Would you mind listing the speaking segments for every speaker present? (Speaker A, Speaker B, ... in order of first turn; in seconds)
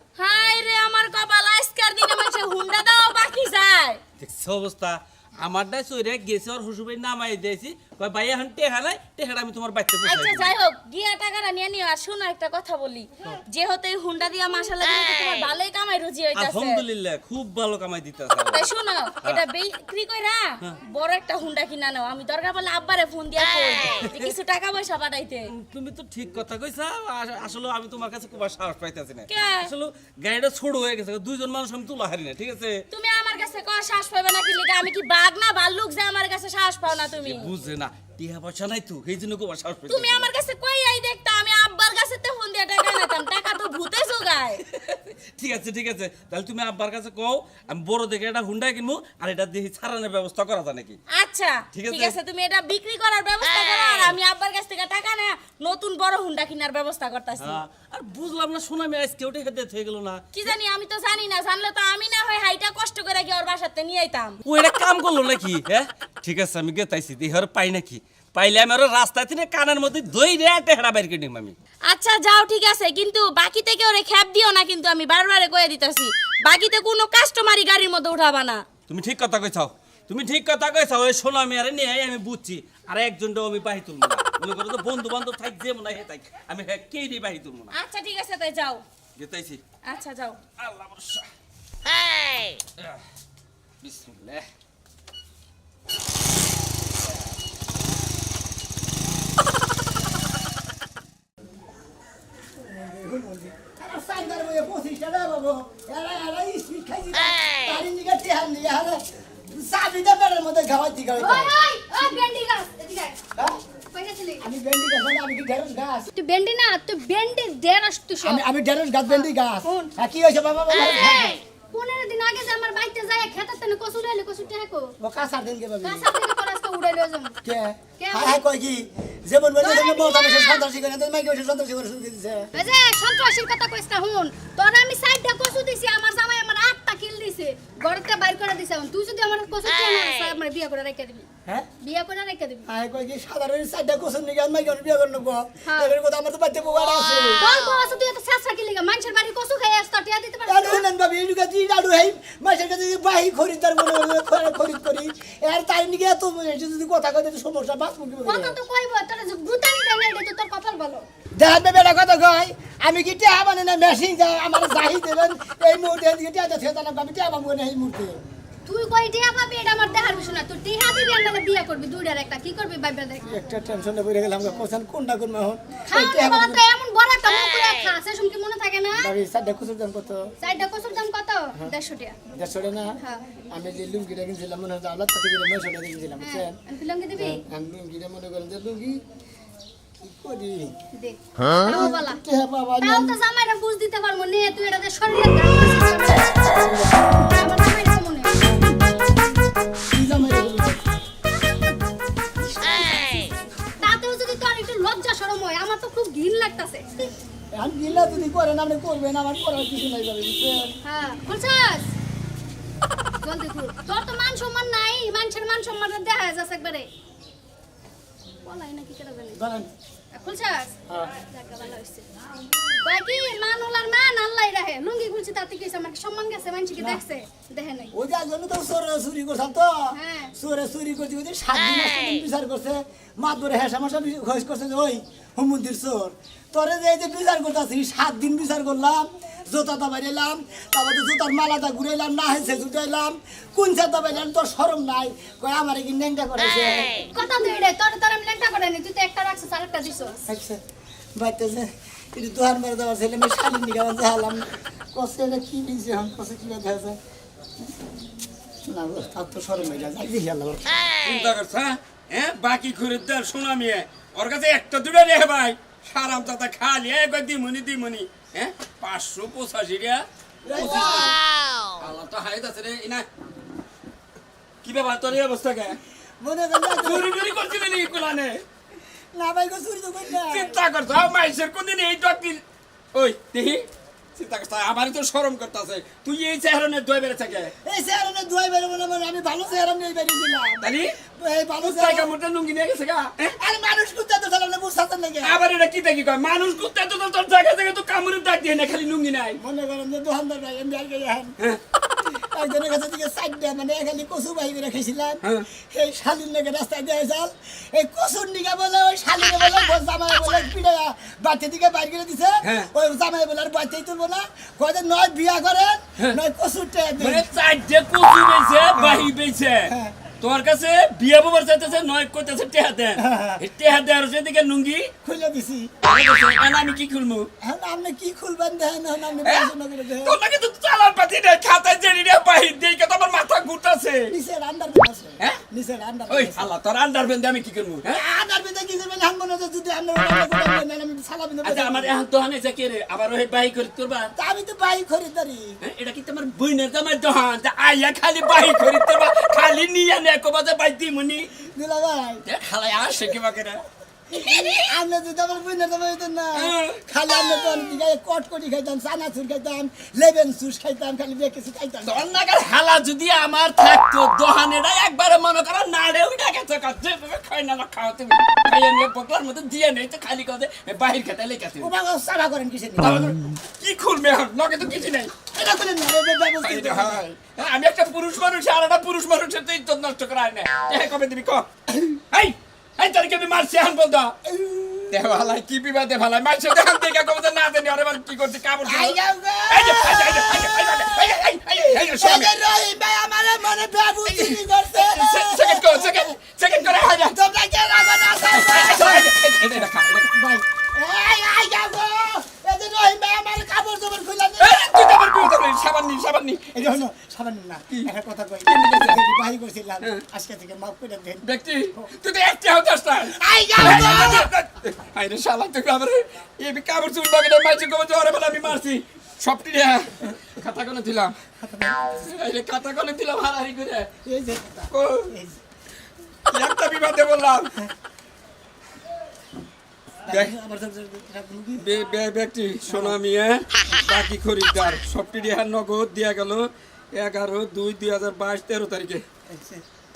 Speaker A: 0.2-4.0, 10.0-16.8, 18.5-25.5, 29.3-29.7, 32.9-37.5, 39.9-44.6, 51.1-57.5, 60.3-64.4, 71.9-78.6, 87.7-88.8, 89.8-90.4
Speaker B: 4.2-10.5, 16.3-18.7, 24.0-24.3, 25.5-32.8, 37.2-40.3, 44.7-51.0, 51.7-52.2, 57.4-60.2, 64.5-71.5, 78.9-87.7, 89.2-89.6, 90.6-91.2, 93.8-94.5
Speaker C: 102.6-111.5, 114.4-116.1, 118.2-121.4, 125.0-126.1, 127.4-132.5, 142.7-147.4, 150.5-158.6, 161.4-168.2, 173.2-176.6, 179.0-180.3, 182.3-183.0, 183.5-186.6, 187.2-189.0, 190.0-190.7, 191.6-193.2, 196.4-197.2, 199.9-200.8, 207.5-210.7, 219.3-219.7, 227.9-246.9, 250.3-250.6, 251.2-257.0, 258.7-260.8, 270.4-271.1, 276.2-277.0, 279.1-280.5, 287.6-292.1, 293.4-295.4, 299.4-301.4, 302.1-317.3, 318.8-319.1, 319.7-320.0, 323.0-323.4, 325.0-325.7, 327.4-330.2, 334.1-336.5, 337.9-342.0, 344.1-345.6, 351.4-352.2, 354.1-362.1, 371.6-373.1, 375.3-377.0, 384.2-385.2, 388.6-399.1, 400.1-405.1, 406.5-411.3, 413.1-414.3, 421.4-422.0, 424.0-425.4, 430.1-431.7, 432.6-432.9, 439.3-439.6
Speaker D: 111.2-113.2, 113.9-114.4, 116.1-118.4, 119.2-119.9, 121.7-124.9, 125.8-127.3, 128.0-128.4, 129.6-130.6, 132.5-141.3, 141.8-142.7, 145.7-145.9, 147.4-150.8, 158.2-161.0, 168.7-173.3, 175.9-179.0, 180.4-182.2, 183.0-183.2, 186.2-187.4, 190.9-192.2, 192.8-196.5, 197.3-198.3, 203.8-206.8, 210.8-211.9, 213.2-216.9, 218.4-219.4, 220.1-220.7, 221.3-222.1, 222.8-227.9, 229.9-230.3, 247.1-250.2
Speaker E: 261.0-271.1, 271.8-273.1, 274.6-275.8, 276.8-278.4, 280.1-282.4, 282.9-287.5, 290.6-290.9, 291.6-293.3, 295.2-299.4, 317.0-324.9, 325.8-327.3, 329.2-334.0, 336.1-338.0, 341.4-344.1, 345.6-351.3, 352.2-354.7, 356.4-356.8, 361.9-371.7, 372.8-375.1, 376.4-381.4, 382.1-384.1, 384.9-392.3, 394.0-397.1, 398.3-400.1, 404.4-406.7, 408.4-409.0, 411.2-421.1, 422.0-423.9, 424.7-425.1, 426.3-427.5, 431.6-439.0